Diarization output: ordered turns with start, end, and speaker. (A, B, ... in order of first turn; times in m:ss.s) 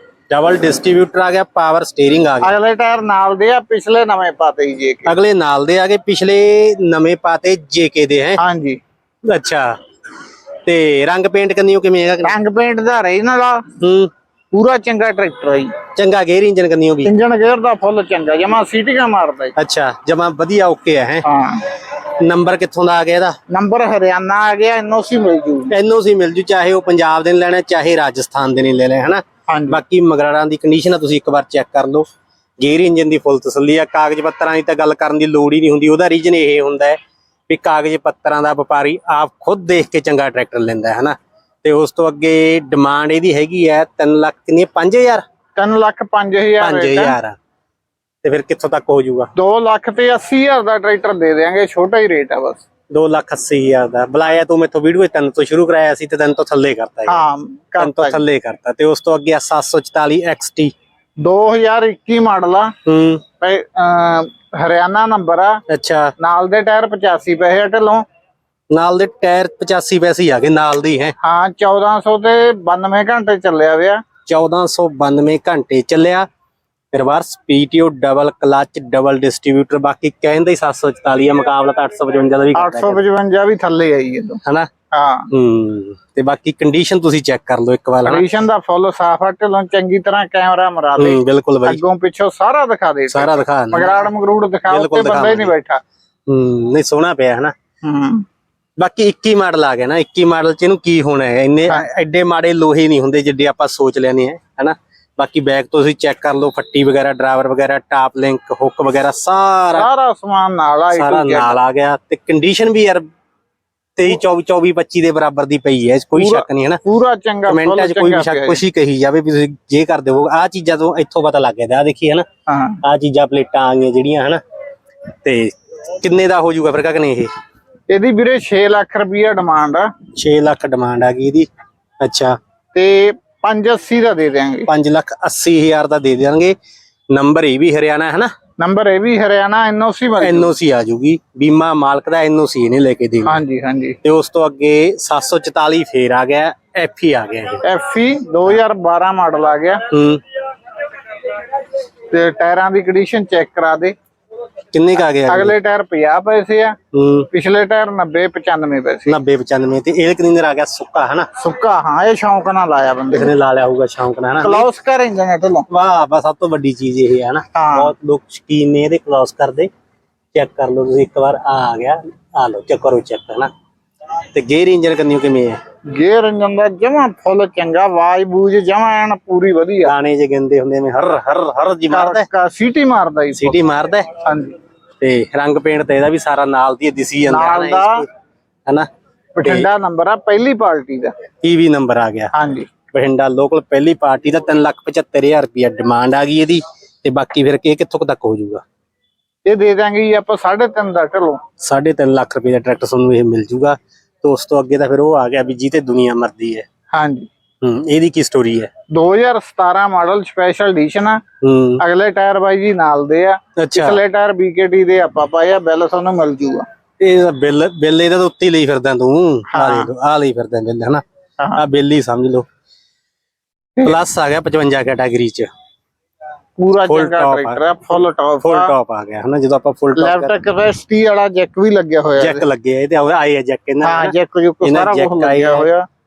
0:00.3-0:02.5 A
0:02.4-0:05.1 B
0:05.0-0:08.4 A
0:08.4-0:08.8 B
0:09.3-0:09.7 A
0:10.6-0:12.3 A
0:12.2-0:13.6 B
0:13.8-0:14.1 A
0:14.5-0:15.7 B
0:15.9-0:17.1 A
0:17.0-0:19.5 B
0:19.6-0:21.2 A
0:21.2-0:21.6 B
0:22.2-0:23.4 A
0:23.5-0:25.7 B
0:25.7-0:32.0 A
0:29.5-0:29.8 B
0:32.6-0:37.0 A
0:37.5-0:45.2 A
0:45.6-0:47.2 B
0:46.6-0:47.4 A
0:48.2-0:49.3 A
0:49.4-0:52.6 B
0:52.9-0:57.2 A
0:57.0-0:58.2 B
0:57.8-1:00.7 A
1:01.2-1:02.7 B
1:02.8-1:03.2 A
1:03.4-1:05.6 B
1:05.7-1:06.1 A
1:06.2-1:08.0 B
1:08.7-1:11.1 A
1:11.2-1:14.0 B
1:14.2-1:16.3 A
1:16.9-1:23.0 A
1:22.5-1:24.4 B
1:24.9-1:25.3 B
1:25.3-1:28.2 A
1:28.0-1:35.8 B
1:31.0-1:31.8 A
1:33.1-1:34.0 A
1:34.7-1:35.5 A
1:36.3-1:37.5 A
1:37.8-1:38.2 B
1:38.8-1:49.9 A
1:49.8-1:51.6 B
1:50.9-1:53.0 A
1:54.0-1:56.8 A
1:56.1-1:58.6 B
1:57.5-2:02.2 A
2:02.5-2:02.8 B
2:02.8-2:04.4 A
2:05.2-2:07.3 A
2:07.9-2:09.9 B
2:10.2-2:11.5 A
2:12.0-2:12.4 A
2:12.7-2:14.7 B
2:14.7-2:16.5 A
2:17.1-2:18.3 A
2:18.6-2:20.5 B
2:20.2-2:23.4 A
2:23.2-2:24.0 B
2:24.0-2:27.6 A
2:27.6-2:29.8 B
2:29.9-2:30.2 A
2:32.1-2:33.9 B
2:34.7-2:35.5 A
2:35.3-2:36.8 B
2:36.9-2:37.3 A
2:37.3-2:39.2 B
2:39.0-2:41.3 A
2:41.4-2:43.3 B
2:43.1-2:44.7 A
2:44.4-2:45.7 B
2:45.7-2:49.7 A
2:47.5-2:47.9 B
2:50.3-2:53.5 A
2:54.3-2:55.6 A
2:55.9-2:59.9 B
2:59.8-3:02.3 A
3:01.9-3:03.6 B
3:03.3-3:04.1 A
3:04.2-3:04.5 B
3:05.0-3:08.0 A
3:07.3-3:08.0 B
3:09.4-3:11.1 B
3:11.4-3:12.3 A
3:12.3-3:12.7 B
3:12.9-3:18.6 A
3:19.4-3:21.4 B
3:21.6-3:26.6 A
3:26.9-3:27.3 B
3:27.6-3:28.7 A
3:28.9-3:31.2 B
3:31.4-3:31.8 A
3:31.8-3:36.6 B
3:33.6-3:34.0 A
3:37.0-3:41.0 A
3:39.5-3:39.9 B
3:41.6-3:42.5 A
3:43.8-3:45.5 A
3:46.6-3:48.7 B
3:46.8-3:47.6 A
3:48.4-3:50.3 A
3:50.0-3:52.4 B
3:52.2-3:55.7 A
3:53.8-3:55.8 B